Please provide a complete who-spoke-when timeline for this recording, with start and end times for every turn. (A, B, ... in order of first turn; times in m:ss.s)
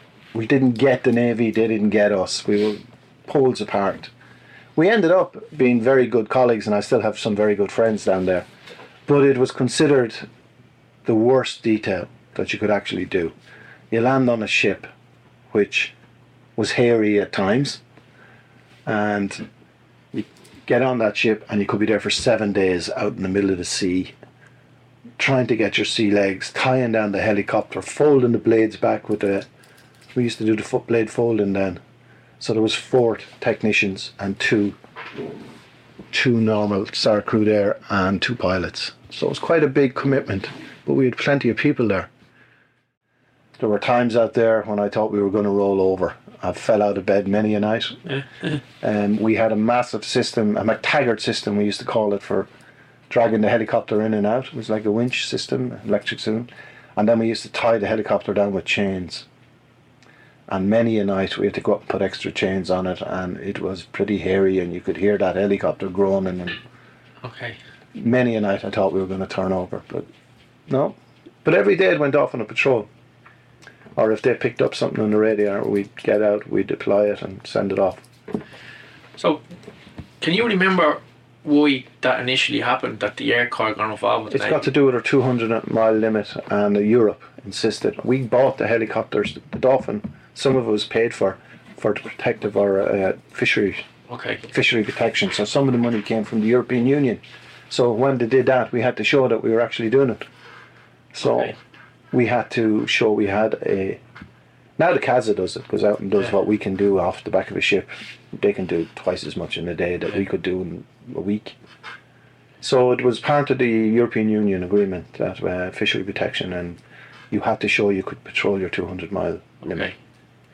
0:00.3-0:04.1 A
0:04.8-0:08.5 A
0:09.1-0:10.3 A
0:11.0-0:13.3 A
0:13.9-0:14.9 A
0:15.5-0:15.9 A
0:16.6-0:17.8 A
0:18.8-0:19.4 A
0:20.1-0:24.1 A
0:25.2-0:29.5 A
0:30.1-0:31.8 A
0:32.4-0:34.8 A
0:36.1-0:42.1 A
0:43.6-0:48.0 A
0:48.1-0:48.5 B
0:48.8-0:52.5 A
0:53.1-0:59.2 A
1:00.5-1:06.6 A
1:07.9-1:10.1 A
1:10.7-1:12.9 A
1:13.9-1:18.0 A
1:19.2-1:19.4 B
1:20.2-1:24.7 B
1:24.3-1:33.8 A
1:34.1-1:34.4 B
1:34.5-1:40.3 A
1:41.1-1:41.5 A
1:41.2-1:41.5 B
1:42.1-1:44.0 A
1:44.8-1:51.6 A
1:52.6-1:56.8 A
1:57.3-1:59.9 A